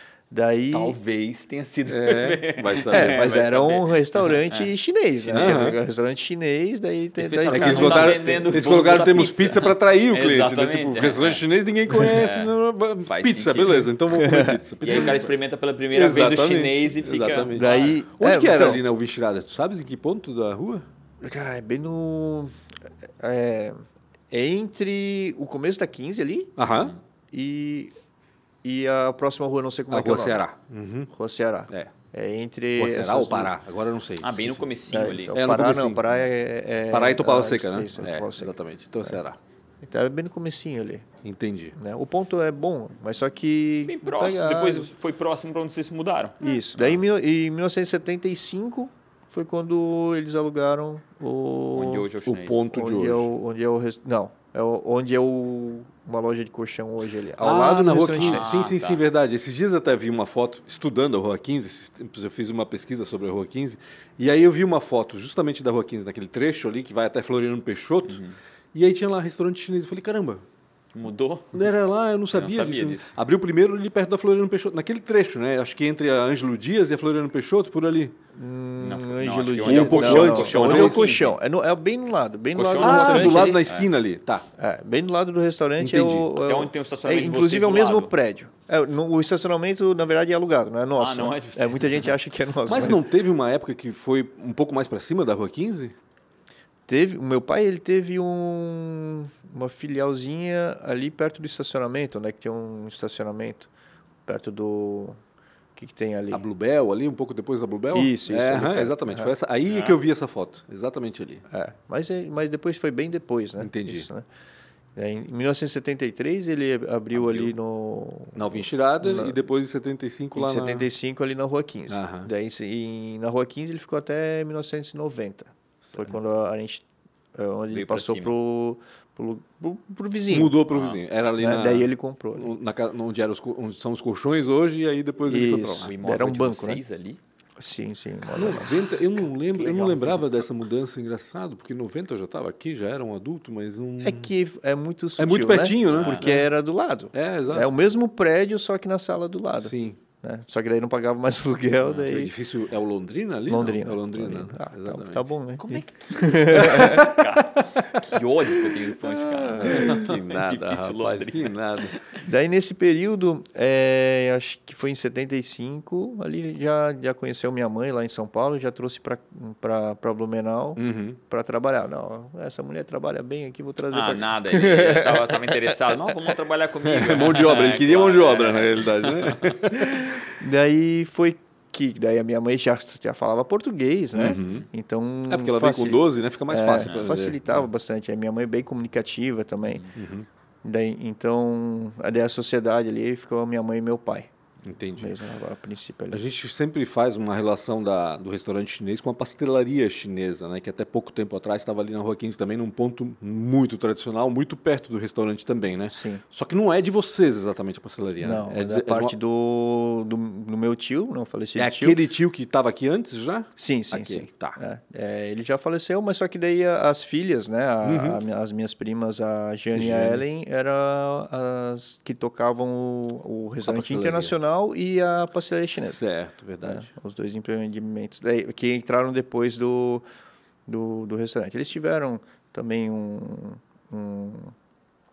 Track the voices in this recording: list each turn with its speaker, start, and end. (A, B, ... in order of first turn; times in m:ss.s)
0:00.3-0:01.0 A
0:00.7-0:04.7 B
0:01.9-0:03.3 C
0:02.9-0:08.4 A
0:05.3-0:05.8 C
0:05.3-0:05.6 B
0:07.2-0:11.4 B
0:07.5-0:15.3 C
0:12.0-0:12.5 B
0:13.0-0:13.9 B
0:14.1-0:14.6 A
0:14.8-0:18.0 B
0:15.9-0:20.8 C
0:17.5-0:18.8 A
0:21.2-0:22.5 A
0:23.2-0:23.8 A
0:24.3-0:26.6 A
0:26.6-0:26.9 C
0:27.3-0:27.9 A
0:28.6-0:30.4 A
0:29.9-0:31.1 C
0:31.1-0:33.5 A
0:32.8-0:34.7 C
0:34.2-0:35.4 B
0:34.9-0:38.5 A
0:35.3-0:36.0 C
0:36.9-0:39.4 C
0:39.8-0:41.1 A
0:41.2-0:41.8 C
0:41.8-0:44.9 A
0:43.8-0:46.4 B
0:46.4-0:52.1 A
0:51.7-0:52.6 B
0:52.2-0:53.3 C
0:52.7-0:58.6 A
0:57.4-1:08.2 C
0:58.2-0:59.0 B
1:08.1-1:08.3 B
1:08.7-1:10.4 C
1:10.9-1:11.7 B
1:11.5-1:18.1 C
1:12.3-1:13.1 B
1:18.3-1:23.7 A
1:18.8-1:21.4 B
1:19.6-1:21.2 C
1:22.5-1:23.9 B
1:22.8-1:24.4 C
1:24.6-1:33.0 A
1:25.8-1:26.3 C
1:26.4-1:28.1 B
1:31.0-1:32.1 B
1:32.6-1:35.9 C
1:36.9-1:43.7 A
1:44.2-1:45.2 A
1:45.8-1:46.4 A
1:46.3-1:51.4 C
1:47.9-1:49.3 A
1:49.7-1:50.0 B
1:51.5-1:54.2 A
1:53.6-1:54.1 C
1:55.0-1:59.4 A
1:57.1-1:57.5 C
1:58.3-2:00.9 C
2:00.3-2:10.6 A
2:01.9-2:02.3 C
2:05.8-2:06.1 C
2:07.7-2:08.4 B
2:10.3-2:15.9 C
2:10.7-2:11.0 B
2:11.4-2:12.5 A
2:15.2-2:16.8 A
2:15.8-2:17.2 B
2:17.6-2:18.8 A
2:18.3-2:24.3 C
2:19.5-2:20.2 B
2:24.0-2:32.3 A
2:25.2-2:26.5 C
2:25.9-2:26.3 B
2:27.1-2:27.7 C
2:29.6-2:30.0 C
2:31.9-2:35.3 C
2:33.5-2:37.1 A
2:35.6-2:42.0 B
2:36.5-2:38.1 C
2:39.1-2:40.0 A
2:39.4-2:42.0 C
2:42.2-2:55.7 A
2:50.8-2:51.2 C
2:53.9-2:59.6 B
2:56.8-3:00.3 C
2:59.8-3:09.8 A
3:04.1-3:04.6 C
3:05.3-3:07.6 C
3:06.8-3:07.1 B
3:09.6-3:09.9 B
3:09.9-3:10.3 C
3:10.6-3:14.3 A
3:14.6-3:15.2 C
3:15.0-3:16.2 A
3:16.1-3:29.2 C
3:25.8-3:26.2 A
3:28.2-3:32.0 A
3:31.6-3:34.6 C
3:33.6-3:46.0 A
3:37.8-3:38.2 C
3:39.7-3:40.2 C
3:43.6-3:44.3 C
3:45.7-3:46.9 C
3:46.6-3:50.0 A
3:50.6-3:54.5 A